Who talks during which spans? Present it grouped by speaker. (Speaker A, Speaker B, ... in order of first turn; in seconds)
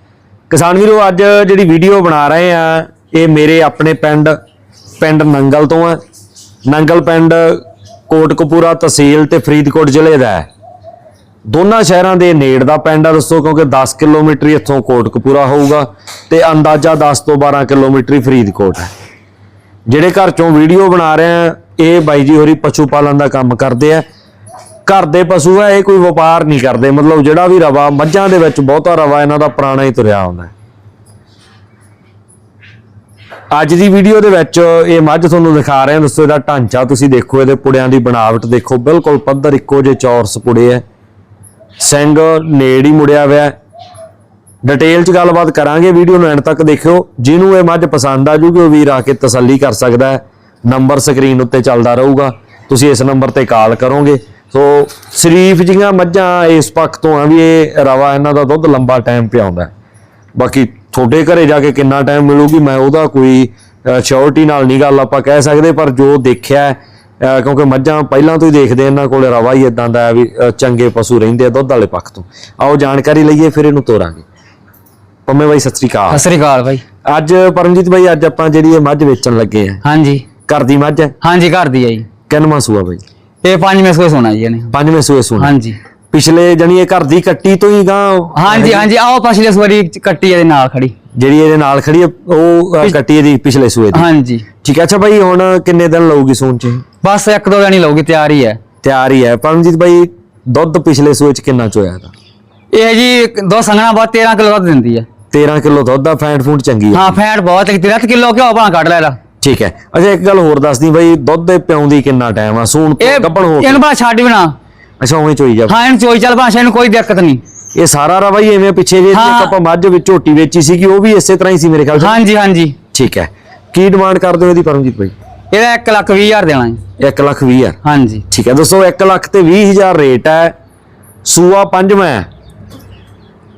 Speaker A: 0.5-4.3, 5.0-6.0, 6.7-10.5, 11.5-18.9, 19.9-24.1, 24.9-30.5, 33.5-40.8, 41.8-43.5, 44.6-59.7, 60.4-74.2, 75.3-76.2, 77.1-79.8, 80.5-81.1, 82.3-83.0, 84.7-85.5, 86.1-88.9, 91.2-94.1, 94.6-96.8, 98.8-102.1, 105.3-107.2, 109.4-113.8, 115.0-115.8, 117.8-122.2, 122.9-125.2, 127.0-127.8, 128.3-130.5, 131.2-132.3
Speaker B: 76.1-76.8, 79.8-80.3, 81.2-82.1, 83.4-84.7, 85.4-85.8, 88.3-90.9, 93.9-94.5, 97.0-98.6, 102.7-105.1, 106.9-109.2, 113.0-114.6, 115.7-117.4, 119.1-119.5, 122.0-122.8, 125.5-126.8, 127.8-128.2